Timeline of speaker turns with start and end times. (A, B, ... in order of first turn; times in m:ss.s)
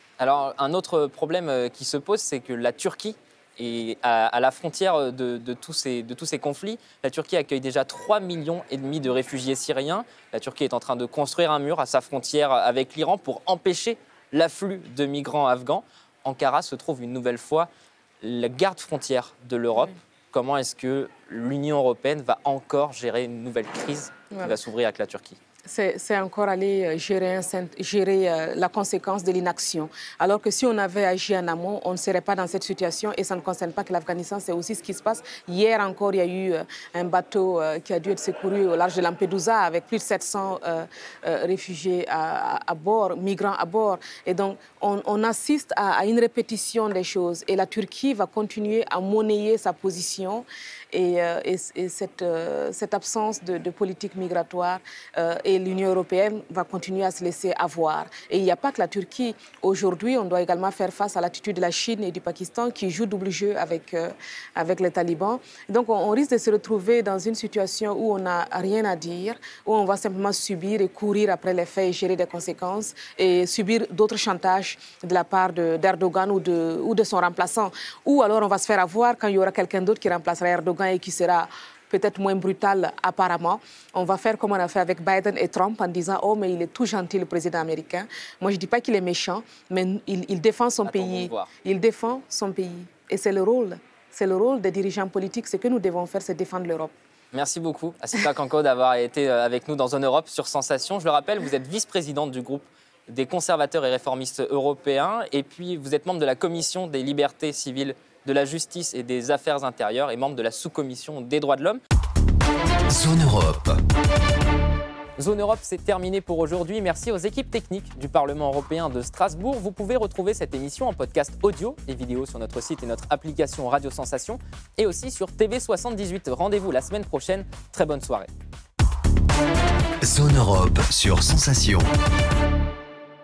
0:00.2-0:17.7 A
0:18.2-0:25.4 A
0:25.6-1:36.9 B
1:30.8-1:31.5 A
1:37.3-1:51.8 A
1:52.9-1:53.8 C
1:55.2-2:08.3 A
2:10.0-2:11.9 C